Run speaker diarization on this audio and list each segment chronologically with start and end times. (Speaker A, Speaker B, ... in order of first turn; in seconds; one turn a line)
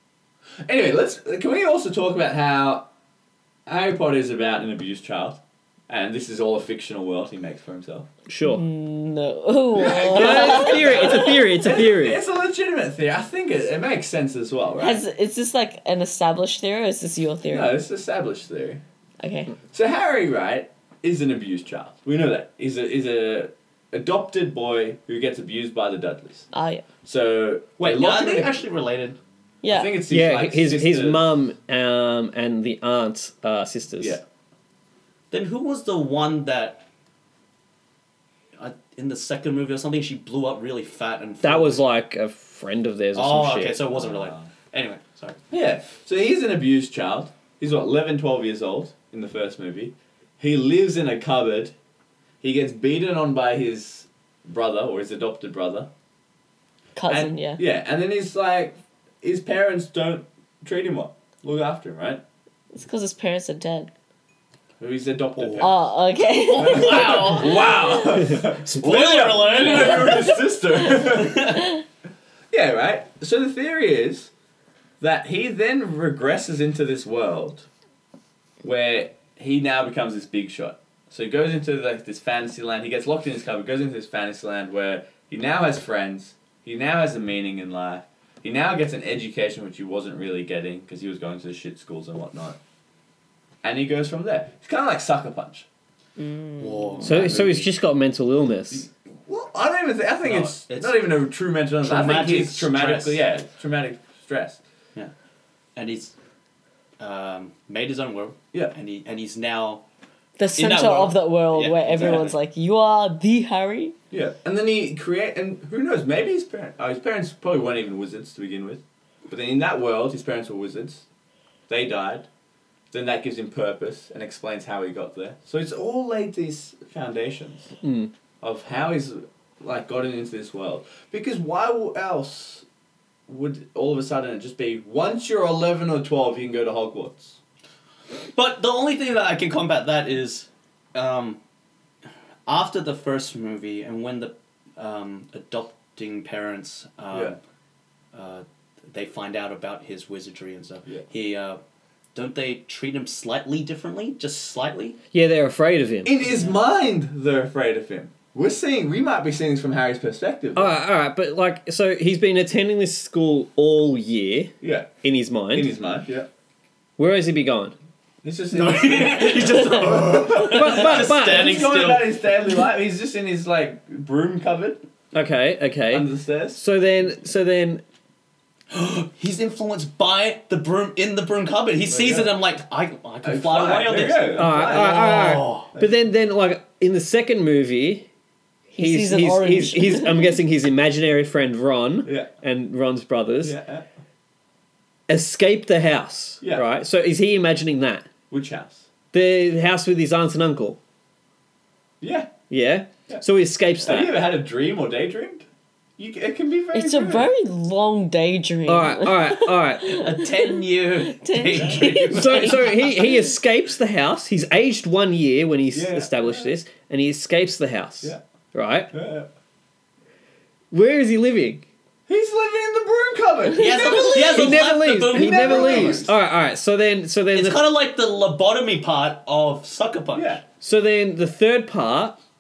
Speaker A: 0.6-2.9
Speaker A: 3.7-8.1
Speaker B: 8.3-8.6
Speaker C: 8.4-11.5
Speaker A: 9.7-15.0
Speaker B: 10.1-12.2
Speaker C: 14.8-17.8
Speaker A: 17.5-18.8
Speaker C: 19.2-19.5
Speaker A: 19.7-26.5
Speaker C: 26.5-26.8
Speaker A: 27.0-28.6
Speaker D: 27.8-29.2
Speaker C: 29.6-29.9
Speaker A: 29.7-31.3
Speaker B: 30.1-34.2
Speaker A: 34.0-34.2
Speaker D: 35.3-36.9
Speaker D: 38.6-41.8
Speaker B: 41.4-43.9
Speaker D: 43.1-45.4
Speaker A: 43.9-44.5
Speaker A: 45.5-51.7
Speaker A: 52.4-55.9
Speaker C: 57.0-57.6
Speaker A: 57.1-62.2
Speaker C: 62.7-63.9
Speaker A: 64.8-65.8
Speaker D: 65.4-65.7
Speaker C: 65.6-67.9
Speaker D: 66.4-71.7
Speaker A: 66.6-71.7
Speaker A: 72.5-74.3
Speaker A: 75.0-77.7
Speaker A: 78.6-92.6
Speaker A: 93.6-95.7
Speaker C: 96.2-97.0
Speaker D: 96.6-97.5
Speaker A: 97.0-97.7
Speaker B: 97.0-98.9
Speaker A: 98.7-104.6
Speaker D: 100.2-101.0
Speaker D: 101.8-103.2
Speaker D: 105.8-106.1
Speaker D: 107.0-109.8
Speaker C: 110.4-114.0
Speaker D: 110.5-112.3
Speaker A: 111.9-112.3
Speaker A: 114.1-121.0
Speaker A: 121.7-122.3
Speaker A: 122.9-127.7
Speaker B: 127.8-128.1
Speaker A: 128.4-132.7
Speaker A: 133.3-137.4
Speaker D: 138.3-141.4
Speaker D: 142.5-147.4
Speaker D: 148.1-151.6
Speaker D: 152.2-155.0
Speaker B: 155.1-156.2
Speaker A: 156.1-160.8
Speaker D: 156.2-156.6
Speaker B: 160.6-165.7
Speaker A: 164.6-164.9
Speaker A: 165.5-166.3
Speaker B: 167.0-167.8
Speaker A: 168.2-174.8
Speaker D: 168.5-172.3
Speaker B: 170.3-171.6
Speaker B: 175.1-177.8
Speaker A: 175.9-176.6
Speaker D: 178.7-185.7
Speaker A: 181.9-182.3
Speaker A: 183.2-185.9
Speaker B: 184.3-188.1
Speaker C: 188.7-190.4
Speaker B: 188.8-193.6
Speaker A: 193.4-193.9
Speaker B: 195.1-198.1
Speaker A: 198.3-198.8
Speaker B: 199.1-200.8
Speaker A: 202.0-202.4
Speaker B: 202.5-204.3
Speaker A: 203.8-205.5
Speaker A: 206.0-207.3
Speaker C: 206.7-213.3
Speaker B: 208.7-210.0
Speaker D: 209.9-212.7
Speaker B: 212.1-218.9
Speaker A: 215.7-216.5
Speaker A: 218.9-219.3
Speaker B: 220.7-221.7
Speaker A: 222.1-226.2
Speaker D: 223.5-226.0
Speaker C: 223.6-224.3
Speaker B: 224.2-227.7
Speaker D: 227.3-230.4
Speaker A: 230.1-230.4
Speaker B: 230.6-232.2